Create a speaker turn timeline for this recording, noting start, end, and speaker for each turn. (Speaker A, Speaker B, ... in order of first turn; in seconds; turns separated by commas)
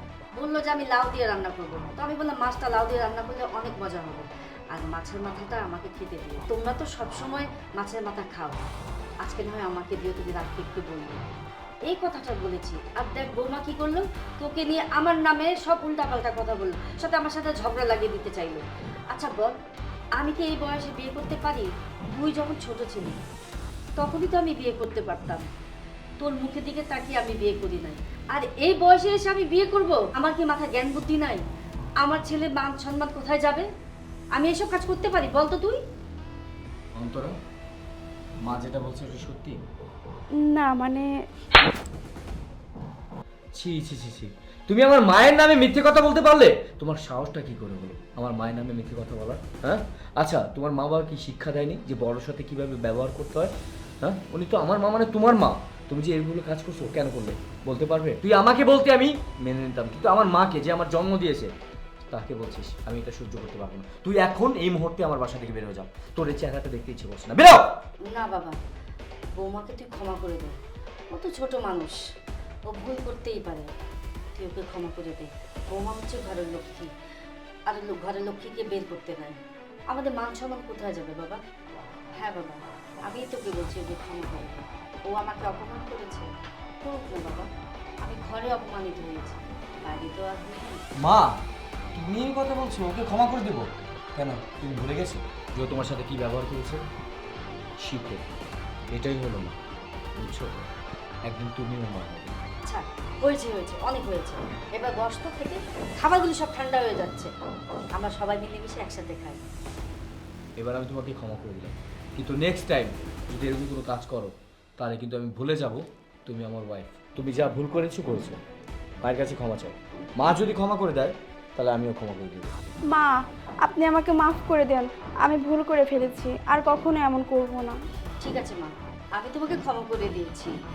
Speaker A: 0.3-8.7, Speaker A: 9.2-11.3, Speaker A: 11.9-19.5, Speaker A: 20.2-23.2, Speaker A: 24.0-25.4, Speaker A: 26.2-31.4, Speaker A: 32.0-33.7, Speaker A: 34.3-35.8, Speaker B: 36.9-37.4, Speaker B: 38.4-39.6, Speaker C: 40.4-41.1, Speaker B: 43.5-61.5, Speaker B: 62.1-67.8, Speaker A: 68.0-68.6, Speaker A: 69.3-70.6, Speaker A: 71.1-72.0, Speaker A: 72.7-73.7, Speaker A: 74.3-76.9, Speaker A: 77.7-79.4, Speaker A: 79.9-81.4, Speaker A: 82.1-87.5, Speaker A: 88.0-90.8, Speaker B: 91.0-91.4, Speaker B: 91.9-96.8, Speaker B: 97.8-98.2, Speaker B: 98.9-99.6, Speaker B: 100.1-100.7, Speaker B: 101.2-102.4, Speaker A: 102.6-107.3, Speaker A: 107.9-109.4, Speaker B: 110.6-118.4, Speaker B: 119.0-122.5, Speaker C: 122.9-127.8, Speaker A: 128.2-130.5